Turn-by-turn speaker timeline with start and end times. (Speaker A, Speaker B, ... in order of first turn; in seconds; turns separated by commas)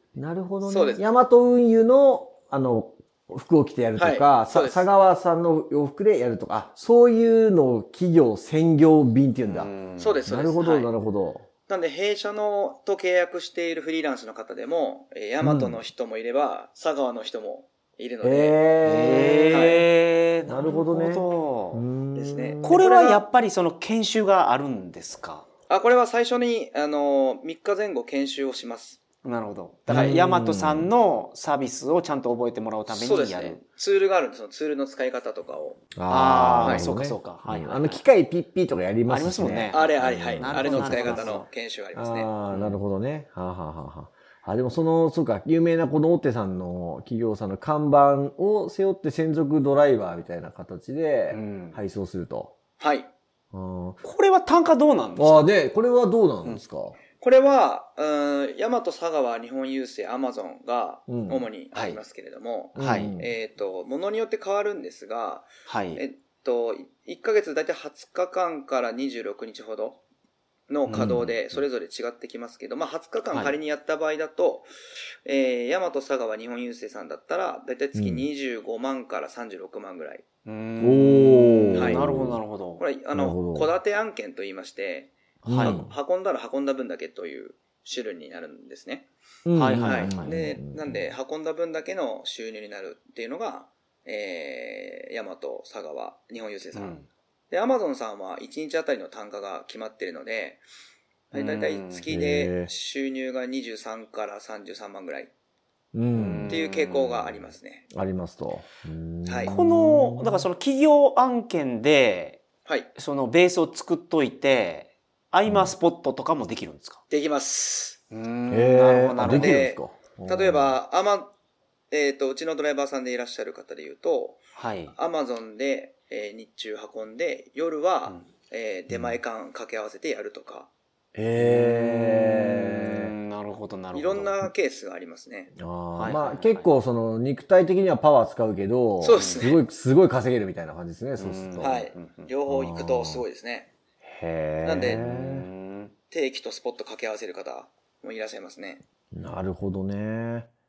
Speaker A: 0.1-9.7, Speaker B: 0.6-1.0, Speaker B: 4.0-4.9, Speaker C: 9.4-10.2, Speaker B: 10.0-10.9, Speaker A: 10.3-11.5, Speaker B: 11.7-19.9, Speaker A: 15.4-15.8, Speaker A: 18.2-19.7, Speaker C: 18.8-21.8, Speaker A: 20.5-22.8, Speaker B: 22.1-23.2, Speaker C: 22.6-25.4, Speaker B: 25.7-29.0, Speaker C: 29.2-33.6, Speaker A: 29.9-30.9, Speaker B: 32.9-35.8, Speaker A: 35.9-41.4, Speaker C: 36.1-38.0, Speaker B: 36.6-36.8, Speaker C: 39.1-41.5, Speaker B: 39.7-42.3, Speaker A: 41.9-52.5, Speaker C: 42.5-42.8, Speaker C: 51.3-51.8, Speaker B: 52.8-53.1, Speaker A: 53.5-54.0, Speaker C: 54.0-55.5, Speaker A: 55.1-57.0, Speaker B: 57.2-70.0, Speaker A: 61.1-61.5, Speaker C: 61.7-62.0, Speaker A: 62.7-63.3, Speaker C: 62.8-63.1, Speaker C: 65.7-66.0, Speaker B: 70.7-74.7, Speaker A: 70.9-71.6, Speaker C: 73.3-73.6, Speaker B: 75.2-80.2, Speaker A: 77.9-78.3, Speaker C: 80.5-82.8, Speaker A: 80.8-82.4, Speaker B: 81.7-82.0, Speaker B: 82.8-89.1, Speaker A: 83.1-83.7, Speaker A: 85.4-85.9, Speaker C: 85.5-85.8, Speaker A: 89.5-91.1, Speaker C: 89.5-90.4, Speaker B: 89.8-97.0, Speaker C: 96.7-97.1, Speaker B: 97.5-100.6, Speaker B: 101.3-105.3, Speaker C: 101.3-102.1, Speaker A: 102.1-102.7, Speaker A: 105.9-106.6, Speaker C: 106.1-107.5, Speaker B: 106.5-107.8, Speaker A: 107.9-110.5, Speaker B: 109.2-109.5, Speaker C: 109.5-112.4, Speaker C: 112.9-117.0, Speaker A: 115.4-115.7, Speaker B: 117.1-118.0, Speaker C: 118.1-119.7, Speaker A: 118.5-120.8, Speaker B: 119.2-121.3, Speaker B: 121.9-124.4, Speaker C: 124.5-124.9, Speaker B: 124.9-130.7, Speaker A: 128.9-129.2, Speaker A: 131.1-133.1, Speaker C: 131.3-134.4, Speaker B: 133.9-135.5, Speaker A: 135.6-141.8, Speaker C: 135.9-136.7, Speaker B: 139.0-139.6, Speaker C: 139.1-139.4, Speaker C: 141.2-142.3, Speaker B: 141.6-143.7, Speaker A: 142.5-143.2, Speaker A: 144.0-145.5, Speaker B: 144.6-145.0, Speaker C: 144.9-145.9, Speaker B: 146.1-148.8, Speaker A: 149.1-150.5